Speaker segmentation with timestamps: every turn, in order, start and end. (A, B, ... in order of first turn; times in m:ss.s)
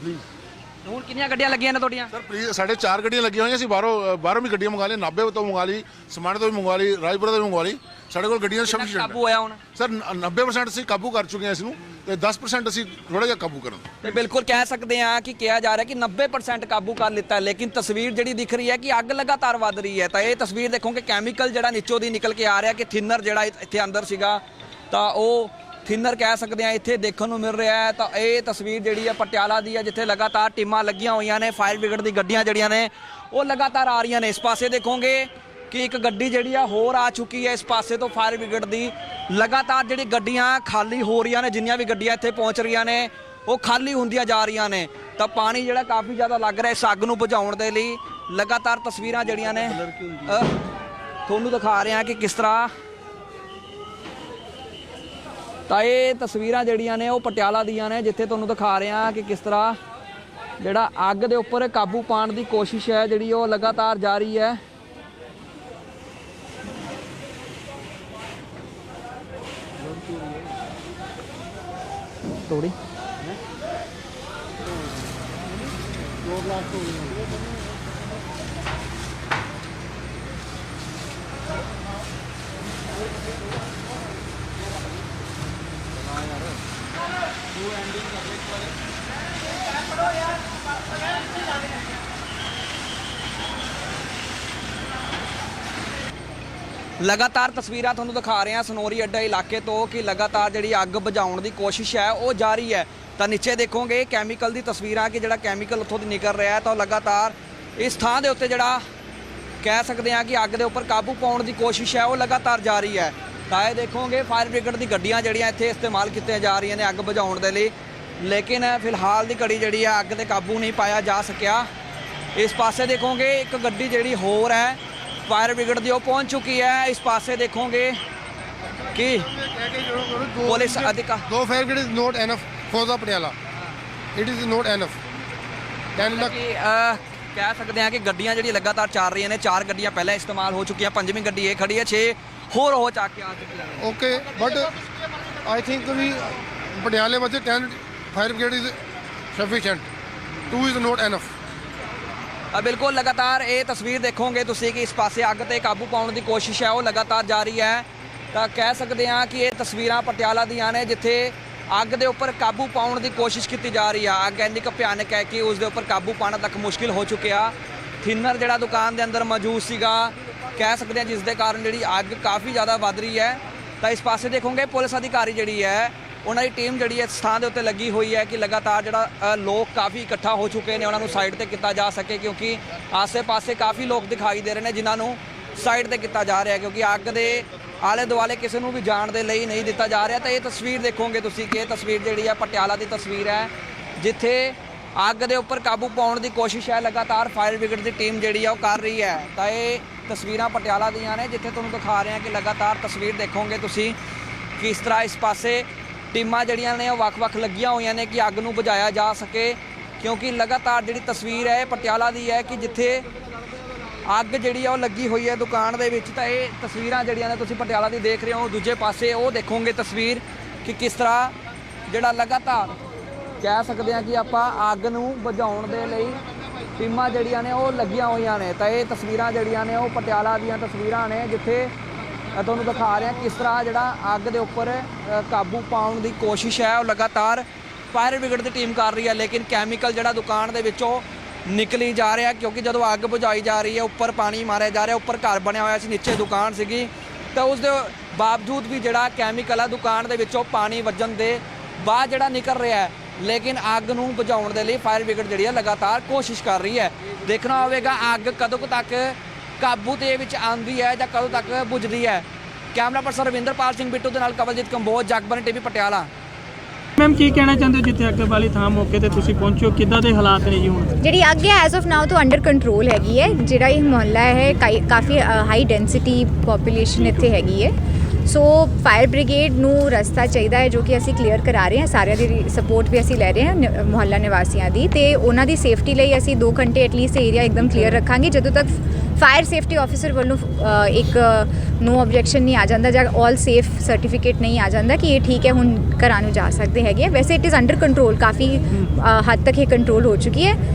0:00.8-0:02.1 A
0:02.1-0:09.2 B
0:08.6-0:09.6 A
0:09.7-0:13.9 B
0:14.0-0:50.5 A
0:51.2-0:52.7 A
0:55.7-0:59.8 A
1:00.6-1:04.6 A
1:12.4-1:12.8 A
1:37.0-1:48.8 A
1:49.6-2:01.7 A
2:02.3-2:08.0 A
2:08.9-2:09.3 A
2:09.2-2:13.3 C
2:10.4-2:11.2 A
2:14.1-2:15.0 C
2:16.0-2:16.3 C
2:16.0-2:23.8 A
2:23.8-2:24.7 C
2:25.4-2:28.8 C
2:29.3-2:29.9 C
2:30.5-2:31.3 C
2:32.5-3:24.0 A
3:24.6-3:33.0 A
3:34.0-3:41.3 A
3:41.8-3:42.8 A
3:43.4-3:46.2 A
3:46.8-3:51.7 A
3:52.3-4:26.1 A
4:27.0-4:30.9 D
4:31.0-4:37.7 E
4:38.2-5:00.6 E